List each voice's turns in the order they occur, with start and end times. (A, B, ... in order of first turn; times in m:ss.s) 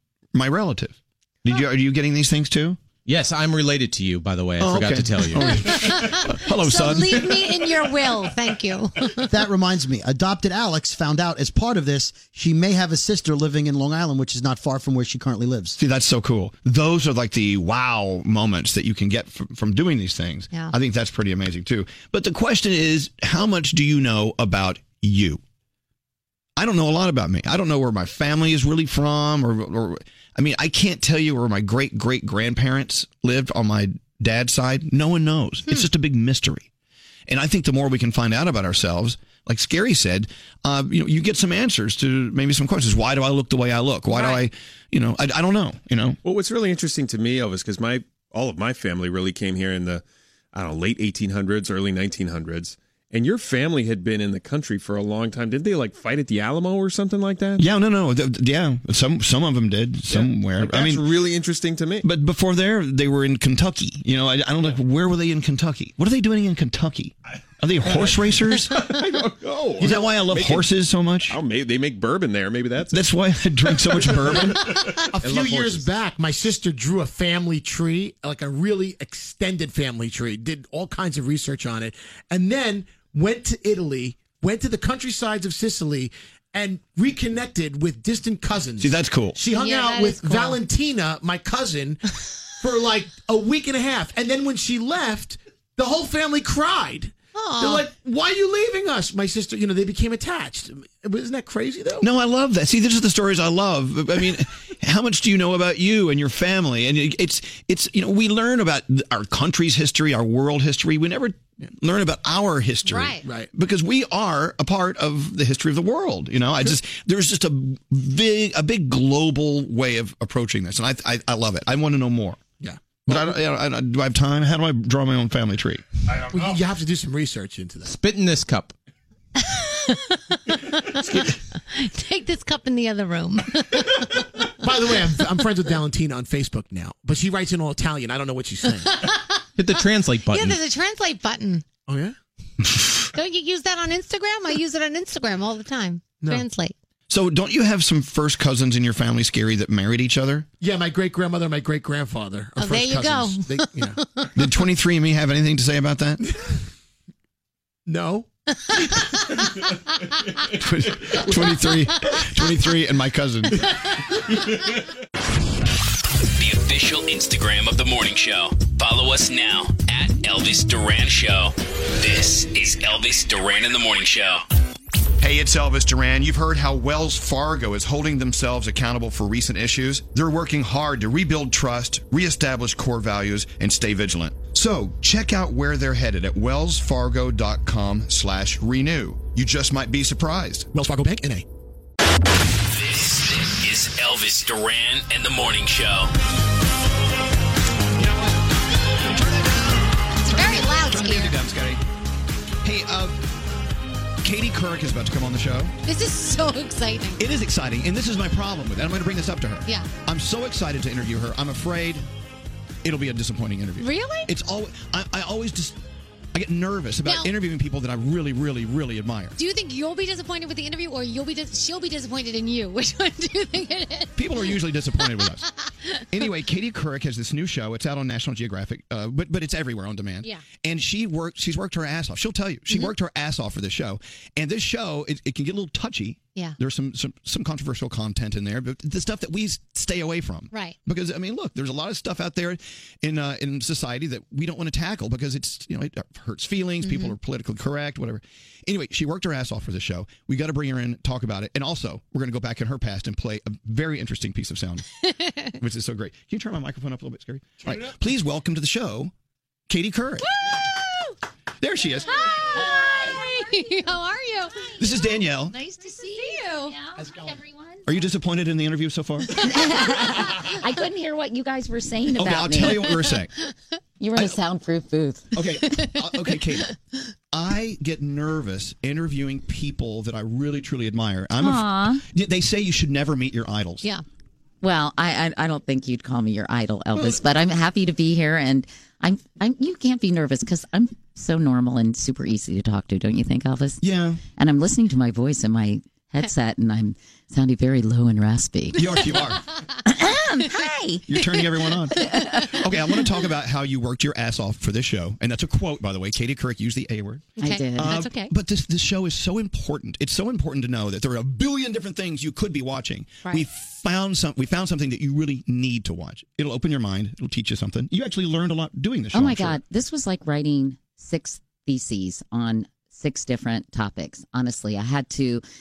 0:00.3-0:02.8 A
0:03.0-0:05.7 B
0:04.6-0:07.5 A
0:05.5-0:09.3 C
0:09.3-0:15.8 D
0:15.8-0:25.4 A
0:26.6-0:36.7 A
0:37.3-0:46.2 A
0:44.1-0:44.4 C
0:46.2-0:57.6 E
0:57.6-1:01.1 A
1:00.1-1:02.0 E
1:02.0-1:09.0 A
1:07.8-1:10.6 E
1:09.8-1:11.4 A
1:11.3-1:13.0 E
1:12.9-1:14.7 A
1:13.7-1:14.5 E
1:15.1-1:32.0 F
1:28.8-1:29.4 A
1:29.5-1:30.6 C
1:32.6-1:42.1 F
1:37.3-1:37.9 C
1:42.0-2:02.4 A
1:52.9-1:53.2 C
1:53.2-1:53.5 F
2:02.6-2:03.4 F
2:03.1-2:05.8 A
2:06.3-2:07.9 F
2:07.8-2:08.7 B
2:09.4-2:14.3 C
2:14.6-2:19.0 F
2:18.8-2:19.4 C
2:19.6-2:20.6 B
2:20.3-2:21.6 C
2:21.9-2:22.1 F
2:23.1-2:26.7 C
2:26.2-2:26.4 F
2:27.1-2:30.4 A
2:30.6-2:34.0 F
2:32.6-2:34.3 C
2:34.3-2:36.2 A
2:37.9-2:38.3 F
2:38.7-2:39.4 C
2:40.5-2:43.6 A
2:46.4-2:54.4 G
2:55.2-3:10.7 A
3:10.7-3:11.4 F
3:12.7-3:16.1 G
3:18.0-3:18.3 A
3:19.0-3:21.8 A
3:20.2-3:21.3 C
3:22.6-3:23.2 A
3:24.2-3:25.7 A
3:25.8-3:27.2 C
3:27.2-3:32.0 A
3:32.8-3:35.8 A
3:33.8-3:34.3 C
3:36.3-3:39.4 A
3:37.0-3:37.3 C
3:39.4-3:44.6 C
3:44.2-3:45.5 A
3:46.1-4:14.8 A
4:06.8-4:07.2 C
4:15.0-4:15.5 C
4:15.6-4:19.1 A
4:19.7-4:20.3 A
4:20.2-4:21.1 C
4:21.6-4:22.2 A
4:22.0-4:26.8 C
4:22.7-4:23.3 H
4:24.8-4:25.6 A
4:25.9-4:27.8 H
4:27.9-4:29.4 A
4:29.4-4:32.9 H
4:32.1-4:33.3 A
4:34.0-4:35.3 H
4:34.1-4:34.4 A
4:35.3-4:36.7 A
4:35.6-4:36.7 C
4:37.3-4:43.9 A
4:41.4-4:42.0 H
4:44.6-4:53.8 H
4:53.8-4:54.2 A
4:54.3-4:58.8 H
4:58.7-4:59.4 A
4:59.8-5:01.4 H
5:01.1-5:19.6 A
5:02.0-5:02.5 H
5:07.4-5:08.0 H
5:07.4-5:08.3 C
5:19.1-5:25.4 H